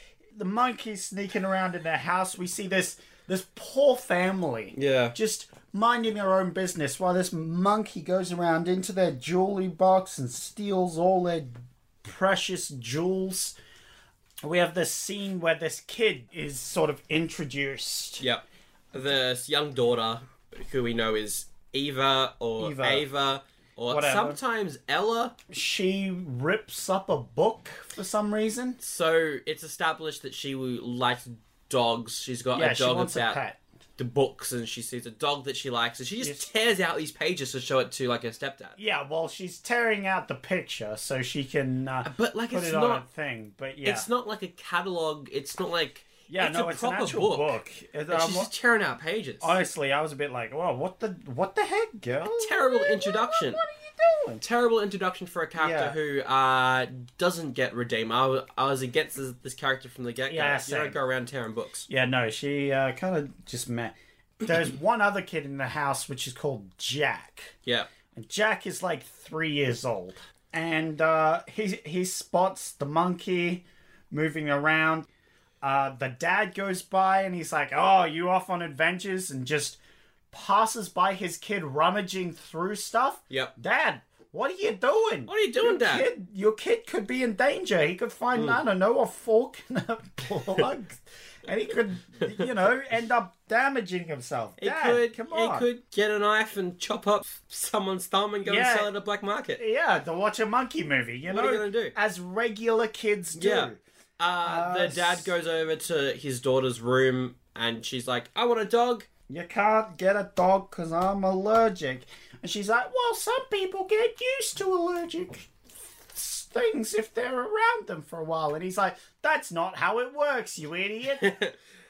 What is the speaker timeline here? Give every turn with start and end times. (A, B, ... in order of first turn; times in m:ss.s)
0:00.3-0:13.6 A
0:04.7-0:05.2 B
0:14.4-0:18.2 A
0:18.2-0:25.3 B
0:22.6-0:23.0 A
0:23.9-0:24.4 A
0:25.5-0:28.8 A
0:28.8-0:33.4 B
0:32.5-0:33.6 A
0:34.0-0:38.8 B
0:36.2-0:36.4 A
0:38.8-0:44.1 A
0:42.0-0:43.0 B
0:43.8-0:47.6 B
0:46.3-0:48.5 A
0:48.1-0:49.5 B
0:49.4-0:54.4 A
0:52.4-0:53.6 B
0:54.4-1:01.9 B
0:55.6-0:56.0 A
1:00.3-1:01.0 A
1:01.9-1:07.5 A
1:08.1-1:15.1 A
1:15.6-1:19.8 A
1:20.3-1:35.6 A
1:25.3-1:26.1 B
1:28.3-1:28.6 B
1:34.6-1:39.6 B
1:38.4-1:38.9 A
1:39.6-1:43.8 A
1:41.3-1:41.9 B
1:43.3-1:49.1 B
1:44.4-1:45.3 A
1:49.3-2:01.3 A
2:01.2-2:01.6 B